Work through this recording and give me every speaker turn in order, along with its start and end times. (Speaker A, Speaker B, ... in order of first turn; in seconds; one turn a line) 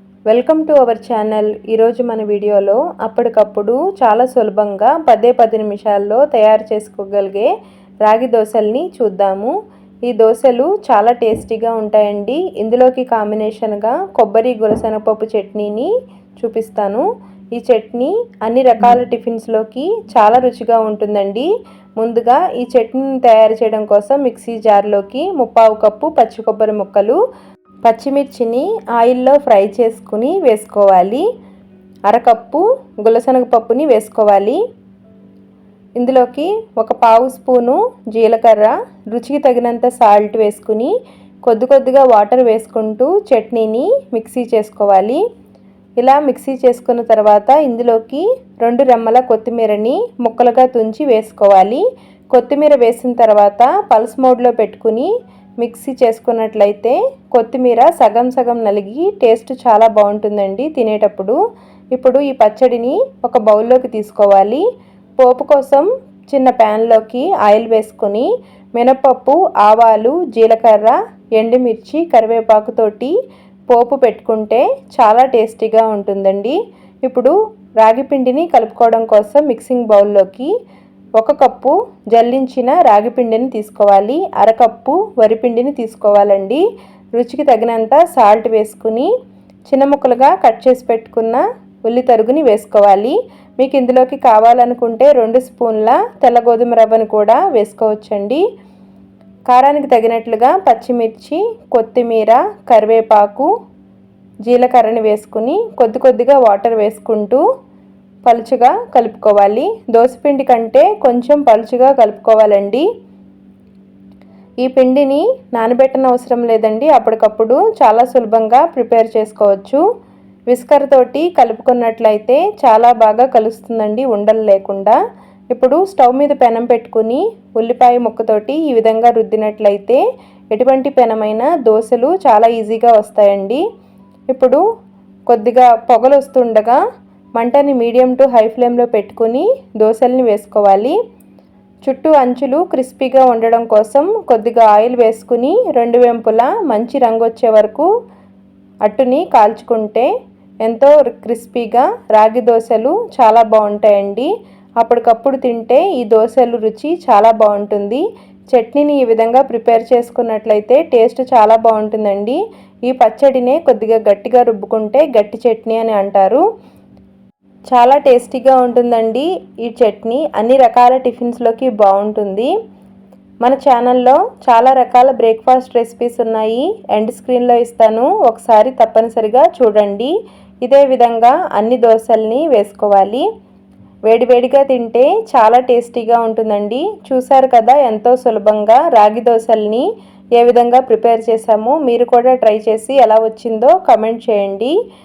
Speaker A: 0.3-7.5
Speaker A: 8.1-9.5
Speaker A: 10.1-21.5
Speaker A: 22.0-27.2
Speaker A: 27.9-31.2
Speaker A: 32.1-34.6
Speaker A: 36.0-40.9
Speaker A: 41.5-45.2
Speaker A: 46.0-55.1
Speaker A: 55.6-61.4
Speaker A: 62.0-64.6
Speaker A: 65.2-73.2
Speaker A: 73.7-80.5
Speaker A: 81.2-86.6
Speaker A: 87.2-89.1
Speaker A: 89.7-98.4
Speaker A: 99.5-103.5
Speaker A: 104.5-107.4
Speaker A: 108.3-112.9
Speaker A: 114.6-119.8
Speaker A: 120.5-125.0
Speaker A: 125.5-130.0
Speaker A: 130.5-133.6
Speaker A: 134.3-134.6
Speaker A: 135.3-136.8
Speaker A: 137.4-141.0
Speaker A: 141.9-147.9
Speaker A: 148.8-150.1
Speaker A: 150.6-154.3
Speaker A: 154.8-166.4
Speaker A: 167.7-172.5
Speaker A: 173.4-180.1
Speaker A: 180.7-183.2
Speaker A: 184.1-189.9
Speaker A: 190.4-194.8